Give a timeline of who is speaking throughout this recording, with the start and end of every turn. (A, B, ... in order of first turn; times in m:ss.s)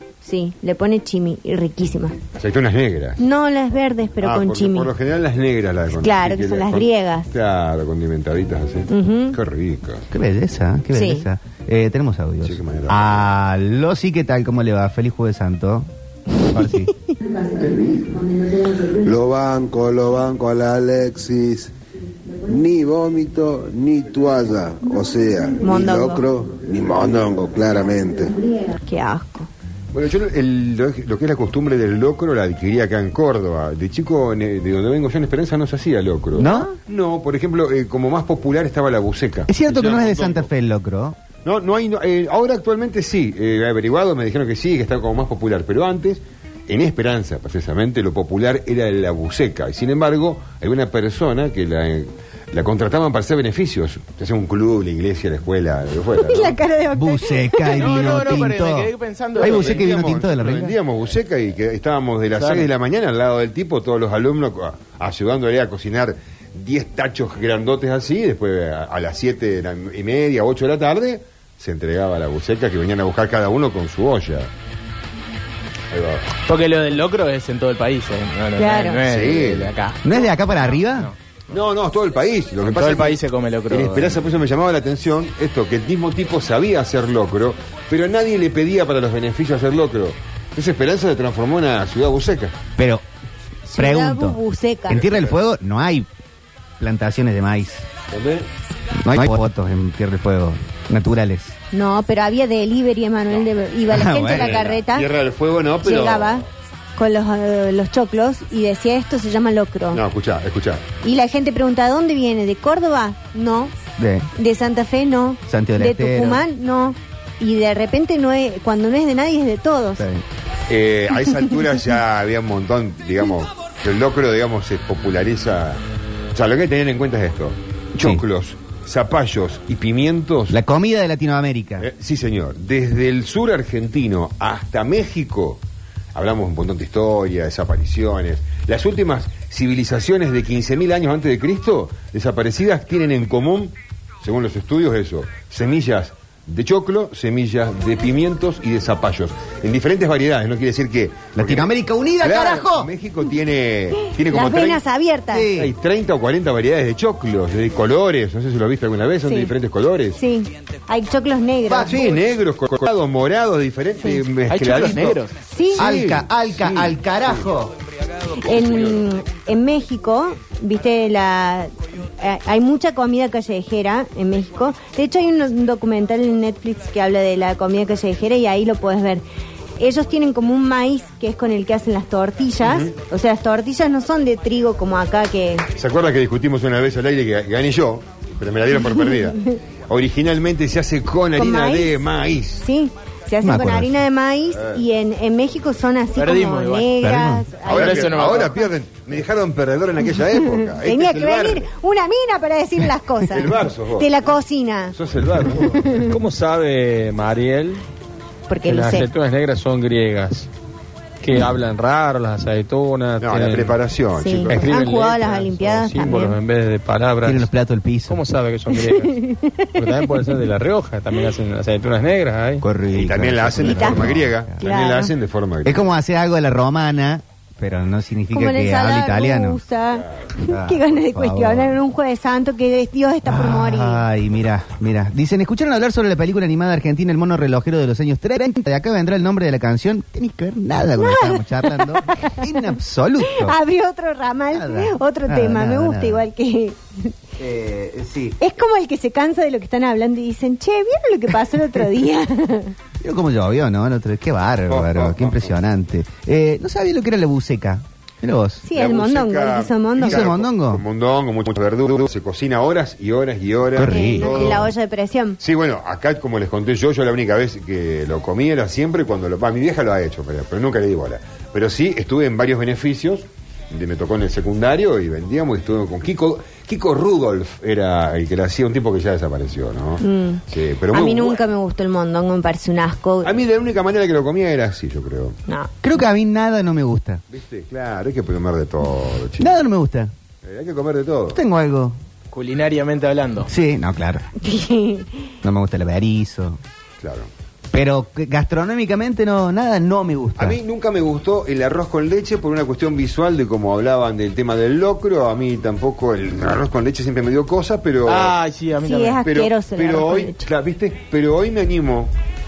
0:00.2-0:02.2 A
0:02.4-0:03.2 B
0:03.2-0:04.9 A
0:04.2-0:10.0 B
0:06.0-0:07.3 A
0:08.9-0:09.4 A
0:10.1-0:15.9 C
0:10.9-0:11.2 A
0:12.4-0:13.2 B
0:16.5-0:16.9 C
0:17.6-0:18.2 D
0:19.0-0:21.7 D
0:22.4-0:28.3 D
0:25.6-0:26.2 A
0:28.7-0:29.5 A
0:29.9-0:40.4 B
0:36.4-0:36.7 C
0:36.4-0:36.7 A
0:39.5-0:41.2 C
0:41.4-0:56.6 B
0:56.2-0:58.0 A
0:56.9-1:00.8 C
0:57.7-0:59.9 E
0:59.4-1:14.5 B
1:02.4-1:02.7 E
1:15.9-1:16.3 B
1:16.5-1:20.0 E
1:18.6-1:19.0 A
1:19.0-1:19.7 B
1:20.0-1:21.1 C
1:20.8-1:21.1 E
1:21.5-1:23.2 B
1:22.6-1:24.2 E
1:23.7-1:32.6 B
1:32.8-1:33.0 C
1:33.7-1:35.0 A
1:33.7-1:36.1 C
1:34.9-1:35.4 B
1:36.8-1:37.8 C
1:38.1-1:38.5 B
1:39.0-1:41.5 C
1:41.7-1:45.1 A
1:43.9-1:44.7 C
1:44.2-1:46.4 B
1:45.8-1:46.4 A
1:47.0-1:50.0 A
1:49.9-1:50.9 B
1:51.0-1:53.7 A
1:54.0-1:54.3 C
1:54.4-2:00.0 A
1:55.5-1:56.4 C
2:00.0-2:00.2 C
2:00.7-2:05.8 B
2:06.3-2:10.6 B
2:08.0-2:08.2 C
2:10.5-2:11.9 C
2:11.8-2:15.6 B
2:16.1-2:34.8 B
2:31.3-2:32.9 C
2:34.3-2:35.5 A
2:35.3-2:35.7 C
2:35.6-2:40.2 B
2:40.2-2:42.0 A
2:41.7-2:45.2 B
2:44.5-2:45.3 E
2:45.5-2:45.9 A
2:45.7-2:47.4 B
2:45.8-2:47.7 C
2:48.4-2:59.2 A
2:48.5-2:49.0 B
2:59.8-3:05.7 A
3:02.6-3:02.9 B
3:05.8-3:12.6 B
3:11.4-3:12.0 A
3:12.6-3:18.3 A
3:13.4-3:14.0 C
3:14.5-3:14.8 B
3:16.2-3:16.9 E
3:17.0-3:17.4 C
3:17.6-3:18.6 E
3:17.6-3:21.6 B
3:20.8-3:24.9 A
3:23.3-3:24.2 B
3:24.9-3:26.0 B
3:26.1-3:27.8 F
3:28.5-3:29.1 A
3:28.6-3:30.5 F
3:31.2-3:33.8 F
3:33.2-3:34.7 B
3:34.2-3:36.4 A
3:34.5-3:37.5 F
3:37.2-3:38.2 C
3:38.1-3:39.2 F
3:38.7-3:39.8 A
3:39.8-3:42.6 F
3:42.6-3:44.6 C
3:42.9-3:45.9 B
3:43.6-3:45.1 A
3:45.6-3:49.6 C
3:48.3-3:54.0 A
3:50.5-3:51.8 C
3:53.2-4:03.6 C
4:01.0-4:02.4 A
4:03.3-4:07.1 A
4:04.5-4:06.2 C
4:07.4-4:08.4 C
4:08.4-4:12.7 A
4:13.0-4:18.6 C
4:14.7-4:15.5 B
4:18.6-4:20.3 A
4:18.7-4:24.7 B
4:20.0-4:20.8 C
4:23.7-4:24.6 C
4:23.8-4:25.4 A
4:25.4-4:41.4 B
4:40.0-4:43.4 A
4:43.2-4:45.4 B
4:45.8-4:47.2 C
4:47.3-4:49.6 B
4:49.4-4:50.1 C
4:50.4-4:51.4 B
4:51.3-4:52.0 C
4:52.3-4:53.5 E
4:53.5-4:54.2 C
4:54.4-4:55.3 A
4:55.4-4:56.6 C
4:57.0-4:57.3 B
4:57.7-5:00.6 C
5:00.4-5:08.4 B
5:08.0-5:09.2 E
5:08.8-5:10.4 A
5:09.2-5:12.1 B